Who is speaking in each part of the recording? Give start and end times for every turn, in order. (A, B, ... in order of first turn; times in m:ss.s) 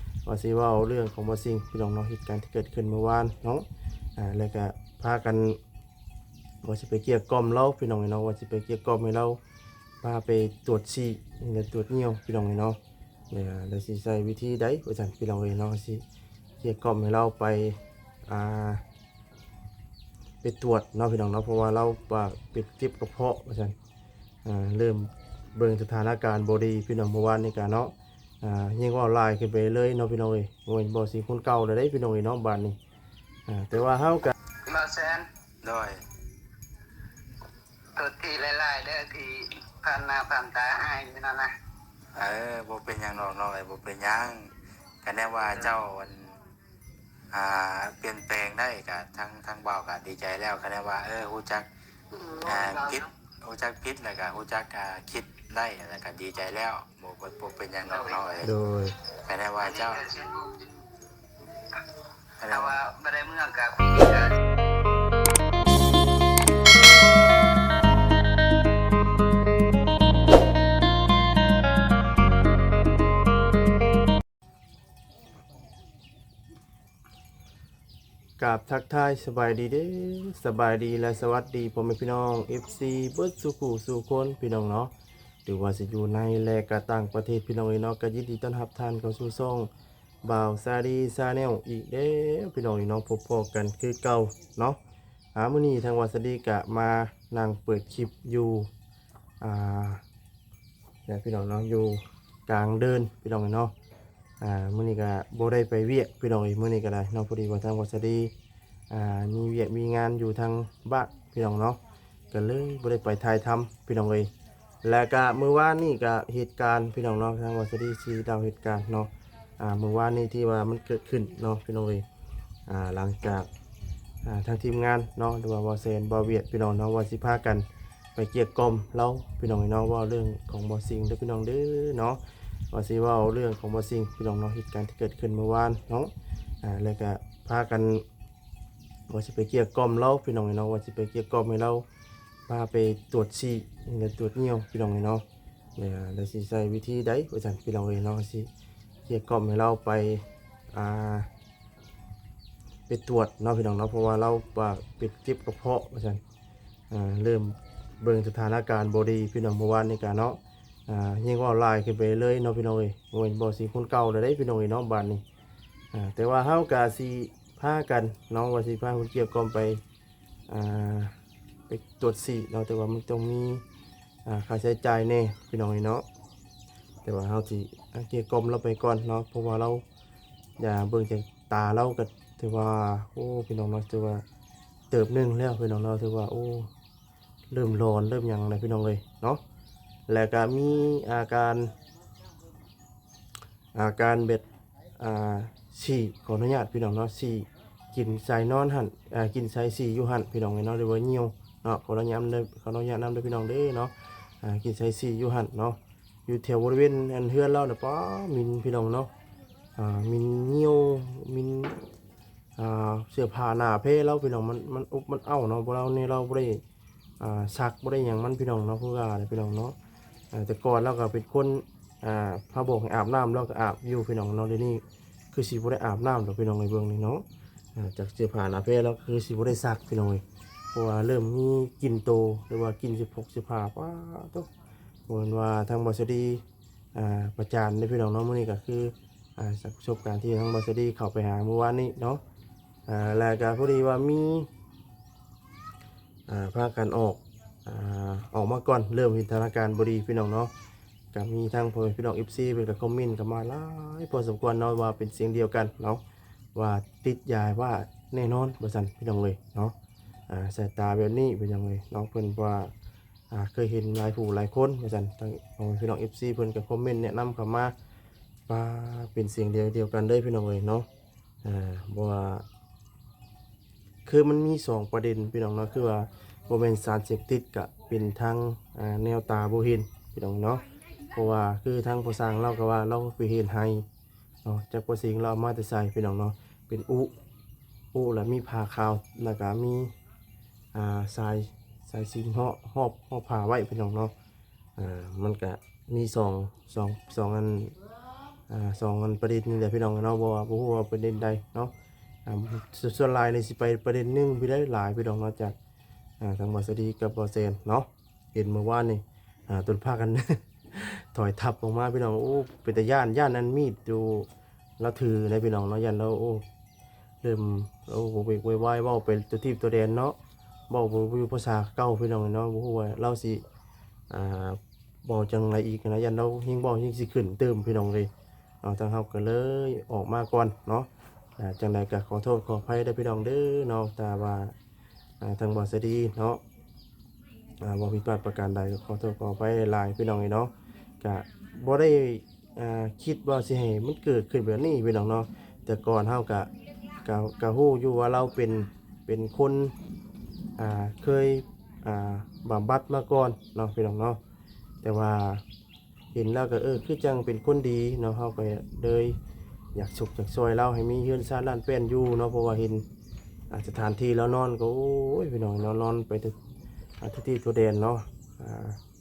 0:00.3-0:03.6 A
0:04.2-0:05.6 A
0:06.6-0:09.4 A
0:10.0-0:12.8 A
0:13.3-0:16.0 A
0:16.6-0:18.8 A
0:20.4-0:23.8 A
0:24.4-0:32.8 A
0:33.5-0:34.4 A
0:34.7-0:35.3 B
0:35.6-0:36.0 C
0:38.0-0:41.5 B
0:42.2-0:46.4 C
0:47.3-0:51.7 C
0:52.1-0:53.1 B
0:52.4-0:58.5 C
0:57.9-0:58.4 B
0:58.4-0:59.0 A
0:59.3-1:00.1 C
0:59.6-1:00.8 B
1:02.4-1:02.8 C
1:02.5-1:04.4 B
1:18.4-1:24.9 A
1:25.5-1:29.7 A
1:30.2-1:34.8 A
1:35.4-1:38.7 A
1:39.4-1:40.0 A
1:41.1-1:43.7 A
1:44.4-1:48.3 A
1:48.9-1:51.8 A
1:52.3-1:54.3 A
1:54.8-2:02.0 A
2:02.7-2:03.5 A
2:04.2-2:12.2 A
2:12.7-2:16.1 A
2:16.6-2:18.0 A
2:19.1-2:21.8 A
2:22.5-2:25.2 A
2:25.8-2:28.5 A
2:29.1-2:31.3 A
2:32.9-2:36.2 A
2:36.9-2:45.2 A
2:45.9-2:49.8 A
2:50.5-2:51.1 A
2:51.7-2:53.6 A
2:54.2-2:56.0 A
2:57.0-2:59.8 A
3:00.6-3:04.2 A
3:04.9-3:06.7 A
3:07.5-3:09.4 A
3:10.1-3:11.7 A
3:13.7-3:14.5 A
3:15.0-3:29.1 A
3:29.8-3:31.8 A
3:32.6-3:36.6 A
3:37.2-3:39.8 A
3:40.3-3:47.2 A
3:47.8-3:54.5 A
3:55.1-3:56.4 A
3:57.0-4:02.2 A
4:02.9-4:04.5 A
4:06.3-4:10.5 A
4:11.1-4:16.0 A
4:16.6-4:19.7 A
4:20.3-4:22.7 A
4:23.3-4:27.7 A
4:28.5-4:30.9 A
4:31.4-4:32.4 A
4:34.1-4:43.9 A
4:44.4-4:47.1 A
4:47.9-4:49.9 A
4:50.7-4:54.1 A
4:54.8-4:57.8 A
4:58.5-5:01.7 A
5:02.3-5:05.6 A
5:06.2-5:14.3 A
5:14.8-5:16.4 A
5:17.2-5:20.2 A
5:20.7-5:23.4 A
5:24.1-5:28.1 A
5:28.6-5:34.6 A
5:35.2-5:36.4 A
5:37.6-5:46.5 A
5:47.0-5:49.7 A
5:50.6-5:54.2 A
5:54.8-5:55.4 A
5:56.1-5:59.2 A
5:59.8-6:02.8 A
6:03.5-6:06.4 A
6:07.0-6:08.8 A